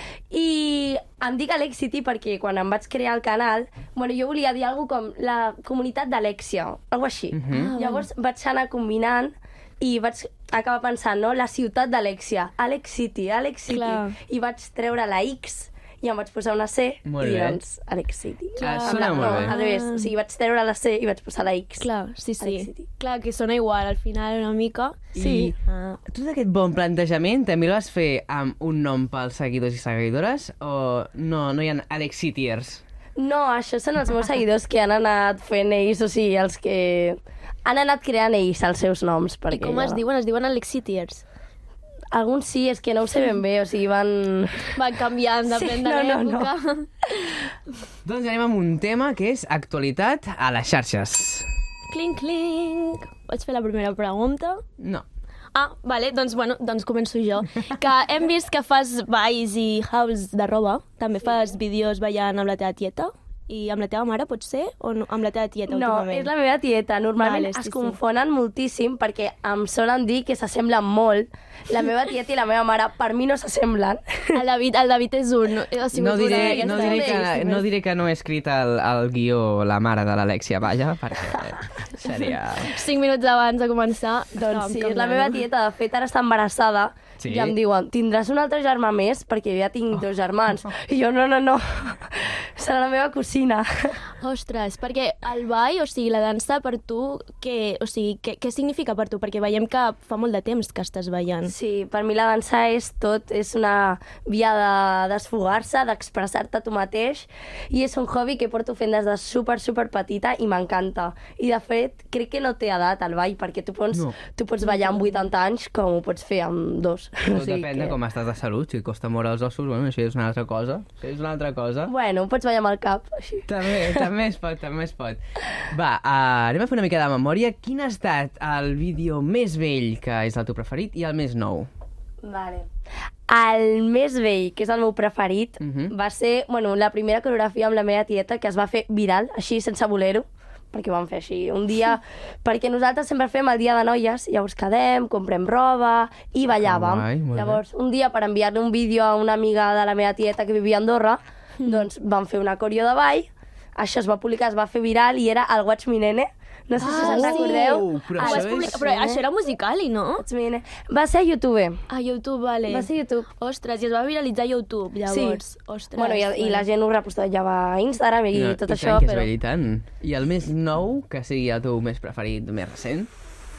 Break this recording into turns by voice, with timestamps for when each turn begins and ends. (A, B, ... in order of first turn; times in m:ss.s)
0:00.3-0:21.9 A
0:07.3-0:07.7 B
0:07.5-0:08.1 C
0:13.7-0:14.2 C
0:17.1-0:17.6 B
0:18.6-0:20.1 C
0:18.6-0:19.5 B
0:21.8-0:26.0 C
0:22.4-0:22.9 A
0:25.2-0:25.6 A
0:25.2-0:25.5 B
0:26.1-0:32.8 B
0:33.2-0:40.0 A
0:39.5-0:41.2 C
0:42.1-0:44.8 A
0:44.8-0:47.5 C
0:45.5-0:46.5 A
0:48.0-0:51.5 B
0:51.9-0:54.6 C
0:54.8-0:55.0 B
0:55.6-1:06.3 C
1:05.7-1:14.4 A
1:07.2-1:08.0 C
1:14.4-1:17.3 C
1:15.9-1:22.7 B
1:16.3-1:17.6 A
1:22.3-1:25.4 C
1:24.4-1:34.0 A
1:27.2-1:27.6 B
1:34.2-1:41.5 C
1:41.5-1:58.0 A
1:54.6-1:55.2 C
1:57.3-2:01.9 B
2:01.9-2:04.1 A
2:03.5-2:05.2 B
2:05.7-2:11.7 B
2:12.2-2:12.7 A
2:13.3-2:39.2 A
2:15.6-2:15.9 B
2:26.6-2:27.6 B
2:31.6-2:31.9 C
2:36.8-2:38.8 B
2:36.8-2:40.2 C
2:40.2-2:41.8 A
2:41.9-2:46.7 C
2:42.7-2:43.3 A
2:45.1-2:45.4 A
2:46.0-2:49.3 A
2:48.3-2:53.1 B